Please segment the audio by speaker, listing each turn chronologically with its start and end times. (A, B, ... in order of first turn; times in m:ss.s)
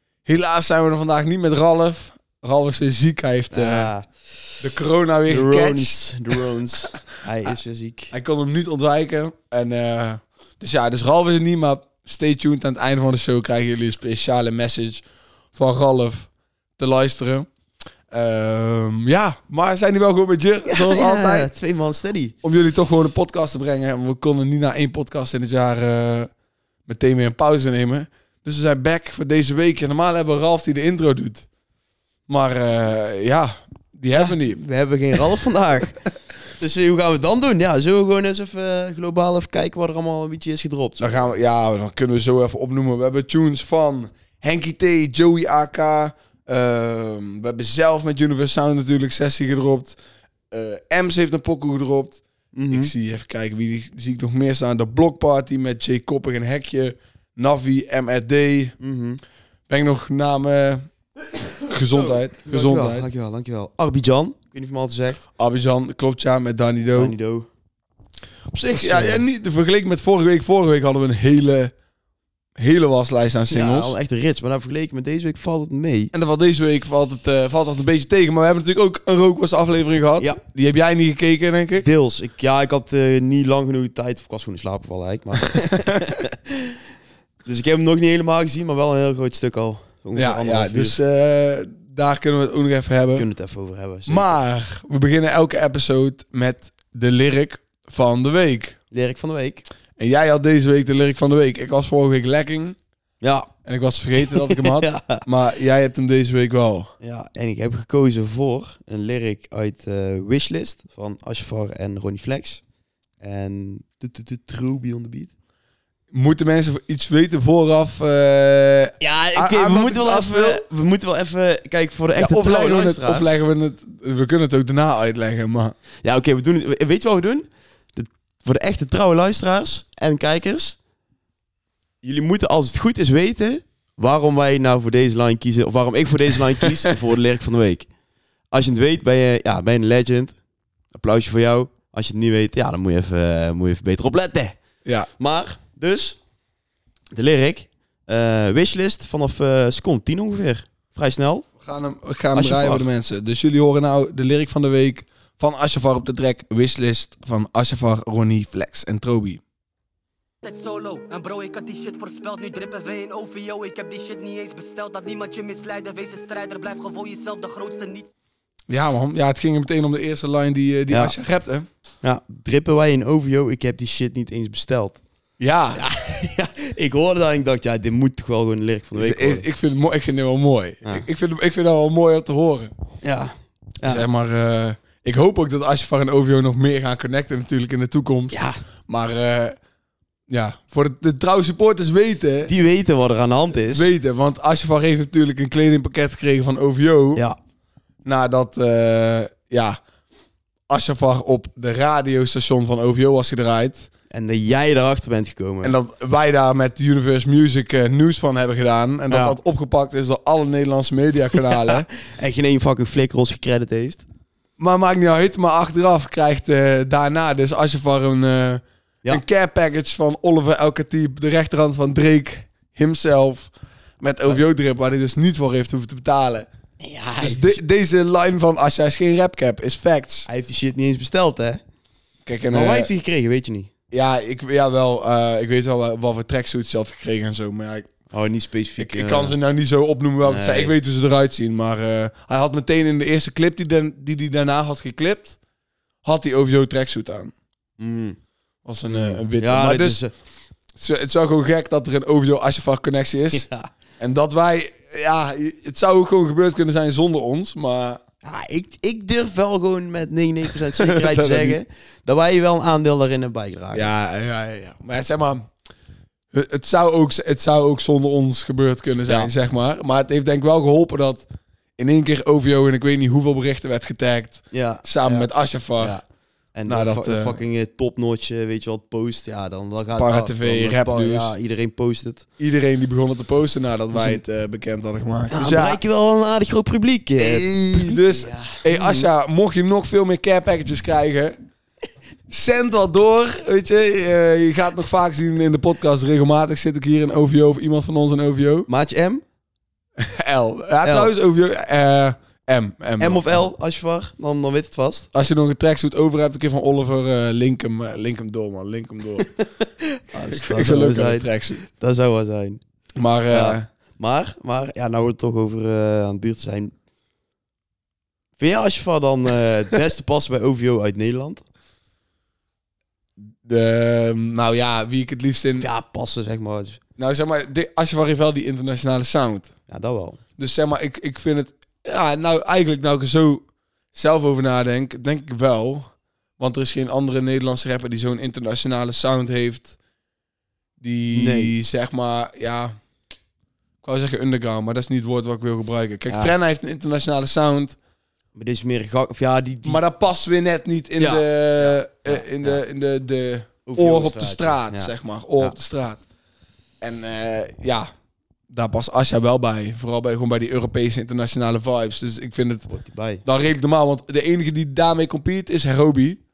0:00.2-0:03.9 A
0:03.5-0:04.4 B
0:04.6-0:06.0 A
0:05.3-0:08.1 B
0:08.1-0:15.0 A
0:15.5-0:17.5 A
0:18.1-0:21.5 A
0:20.7-0:22.4 B
0:22.4-0:26.3 A
0:26.9-0:31.5 A
0:32.3-0:34.6 A
0:34.2-0:36.0 B
0:36.6-0:41.3 B
0:41.0-0:50.0 A
0:50.5-0:58.8 A
0:52.5-0:52.9 B
0:58.8-0:59.2 B
0:59.7-1:00.9 A
1:01.5-1:03.1 A
1:02.0-1:05.2 B
1:05.4-1:07.1 A
1:07.0-1:07.5 B
1:08.5-1:11.7 A
1:08.7-1:09.2 B
1:12.6-1:14.0 A
1:13.5-1:16.1 B
1:16.1-1:21.9 A
1:21.8-1:26.8 B
1:25.5-1:26.2 A
1:27.4-1:31.0 B
1:30.2-1:33.3 A
1:33.2-1:34.3 B
1:34.1-1:38.8 A
1:38.9-1:39.6 B
1:40.0-1:42.8 A
1:43.2-1:43.5 B
1:43.7-1:46.9 A
1:44.2-1:45.2 B
1:47.0-1:52.6 B
1:53.2-1:55.3 B
1:56.1-2:00.6 A
1:59.0-2:03.4 B
2:02.2-2:05.8 A
2:06.0-2:10.8 B
2:12.0-2:17.9 B
2:18.5-2:20.4 B
2:20.9-2:24.6 B
2:25.2-2:26.2 B
2:27.1-2:31.5 B
2:31.6-2:39.4 A
2:32.4-2:32.9 B
2:40.4-2:48.1 C
2:48.7-2:51.7 A
2:50.9-2:51.2 B
2:52.0-2:55.0 B
2:55.4-2:55.8 A
2:55.8-2:59.4 B
2:59.0-3:02.7 A
3:03.0-3:04.0 B
3:03.8-3:09.6 A
3:08.3-3:08.6 B
3:10.3-3:12.5 A
3:12.5-3:13.9 B
3:13.6-3:17.2 A
3:18.0-3:19.8 A
3:20.7-3:23.9 A
3:24.1-3:25.8 B
3:25.6-3:31.9 A
3:29.1-3:29.4 B
3:31.3-3:34.0 B
3:34.6-3:46.5 A
3:46.8-3:47.6 B
3:47.2-3:50.3 A
3:50.3-3:51.6 B
3:52.3-3:52.9 A
3:52.5-3:53.7 B
3:53.9-3:57.9 A
3:58.1-3:59.4 B
3:58.8-4:05.4 A
4:00.2-4:00.7 B
4:06.0-4:07.3 A
4:07.8-4:08.2 B
4:08.6-4:10.0 A
4:08.9-4:10.1 B
4:10.8-4:13.4 A
4:13.3-4:13.7 B
4:14.0-4:18.0 A
4:18.2-4:23.9 B
4:20.8-4:21.6 A
4:23.7-4:25.5 A
4:26.3-4:31.3 A
4:29.1-4:29.3 B
4:31.8-4:36.0 A
4:34.5-4:42.3 B
4:36.7-4:37.4 A
4:40.0-4:41.4 A
4:42.4-4:45.8 A
4:43.9-4:44.2 B
4:45.3-4:49.1 B
4:47.2-4:51.4 A
4:52.3-4:58.7 A
4:58.7-4:59.2 B
5:00.0-5:03.4 A
5:00.8-5:01.1 B
5:03.0-5:05.1 B
5:05.1-5:09.3 A
5:09.4-5:12.6 B
5:10.3-5:11.6 A
5:13.0-5:13.7 A
5:13.3-5:16.7 B
5:18.4-5:21.4 B
5:23.2-5:25.7 A
5:25.6-5:26.8 B
5:27.0-5:29.5 A
5:29.7-5:30.2 B
5:30.4-5:39.8 A
5:40.8-5:42.8 A
5:41.1-5:41.5 B
5:43.8-5:47.8 A
5:46.1-5:46.3 B
5:48.4-5:49.8 B
5:49.6-5:56.0 A
5:51.0-5:52.6 B
5:53.7-5:55.6 B
5:56.8-5:57.9 A
5:58.5-6:02.7 A
6:02.7-6:03.2 B
6:03.2-6:06.2 A